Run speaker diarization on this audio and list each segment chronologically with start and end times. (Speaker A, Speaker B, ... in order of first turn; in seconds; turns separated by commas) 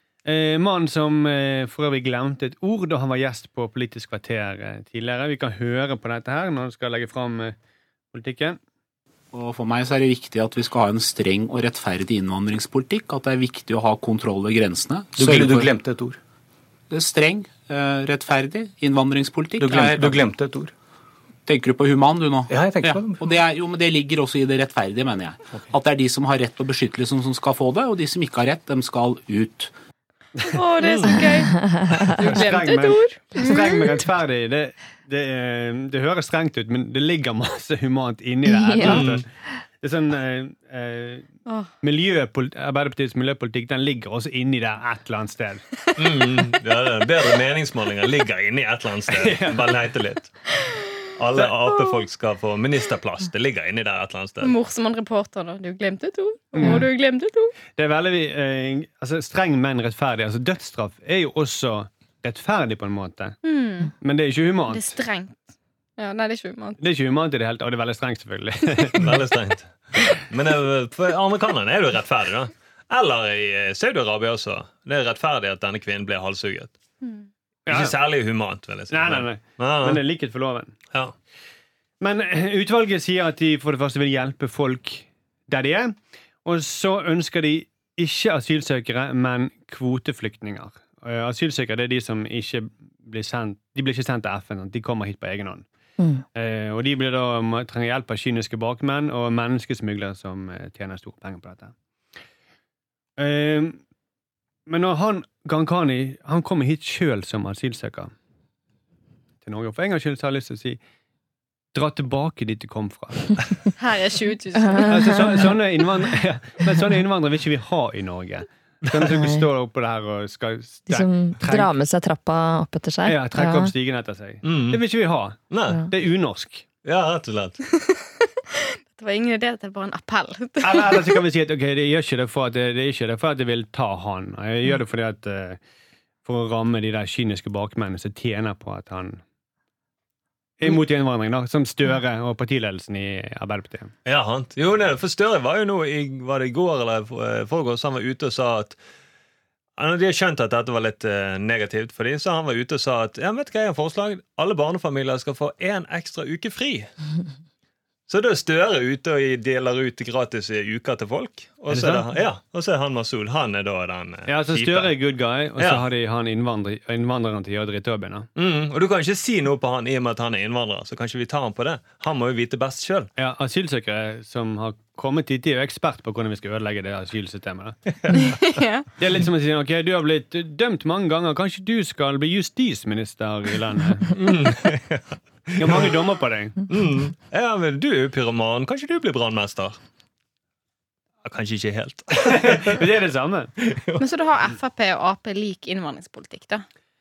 Speaker A: 0.2-7.6, Speaker A: 8.1-8.6, Speaker B: 9.3-15.7, Speaker C: 15.2-16.2, Speaker B: 16.9-20.2, Speaker C: 19.6-20.7, Speaker B: 21.5-29.7, Speaker C: 22.5-23.2, Speaker D: 30.4-31.5, Speaker E: 30.8-31.3, Speaker F: 31.5-32.2, Speaker D: 32.1-33.9, Speaker A: 32.2-39.3, Speaker F: 38.5-39.1, Speaker E: 38.8-39.2, Speaker A: 39.8-41.3, Speaker A: 41.8-45.7, Speaker E: 46.0-50.3, Speaker A: 49.1-49.9, Speaker E: 51.2-54.5, Speaker D: 54.4-57.5, Speaker A: 56.5-56.9, Speaker A: 57.8-63.4, Speaker D: 63.4-63.9, Speaker A: 64.0-65.0, Speaker D: 64.7-65.4, Speaker D: 66.0-66.8, Speaker A: 66.8-69.2, Speaker E: 69.0-76.7, Speaker A: 77.7-78.0, Speaker E: 77.7-80.0, Speaker A: 78.9-80.8, Speaker A: 82.0-95.7, Speaker F: 96.0-96.2, Speaker A: 96.3-101.7, Speaker A: 103.2-103.8, Speaker A: 104.7-108.1, Speaker A: 109.4-110.8, Speaker A: 111.7-113.4, Speaker D: 113.8-115.4, Speaker F: 114.8-115.4, Speaker A: 114.8-121.7, Speaker F: 119.1-119.5, Speaker F: 120.9-123.7, Speaker A: 123.0-126.7, Speaker E: 124.4-124.8, Speaker E: 125.5-125.9, Speaker E: 126.8-127.6, Speaker D: 128.5-131.2, Speaker A: 130.6-135.6, Speaker A: 136.2-139.2, Speaker A: 140.6-143.9, Speaker E: 144.1-148.8, Speaker E: 149.8-156.9, Speaker E: 158.1-164.9, Speaker A: 161.7-162.1, Speaker A: 164.3-168.3, Speaker E: 165.6-165.8, Speaker E: 168.4-173.1, Speaker A: 173.2-177.8, Speaker D: 178.2-178.9, Speaker A: 179.0-184.2, Speaker E: 184.1-185.9, Speaker A: 185.6-186.6, Speaker E: 186.7-189.8, Speaker E: 191.2-192.8, Speaker A: 192.2-193.5, Speaker E: 193.7-194.0, Speaker D: 194.0-196.7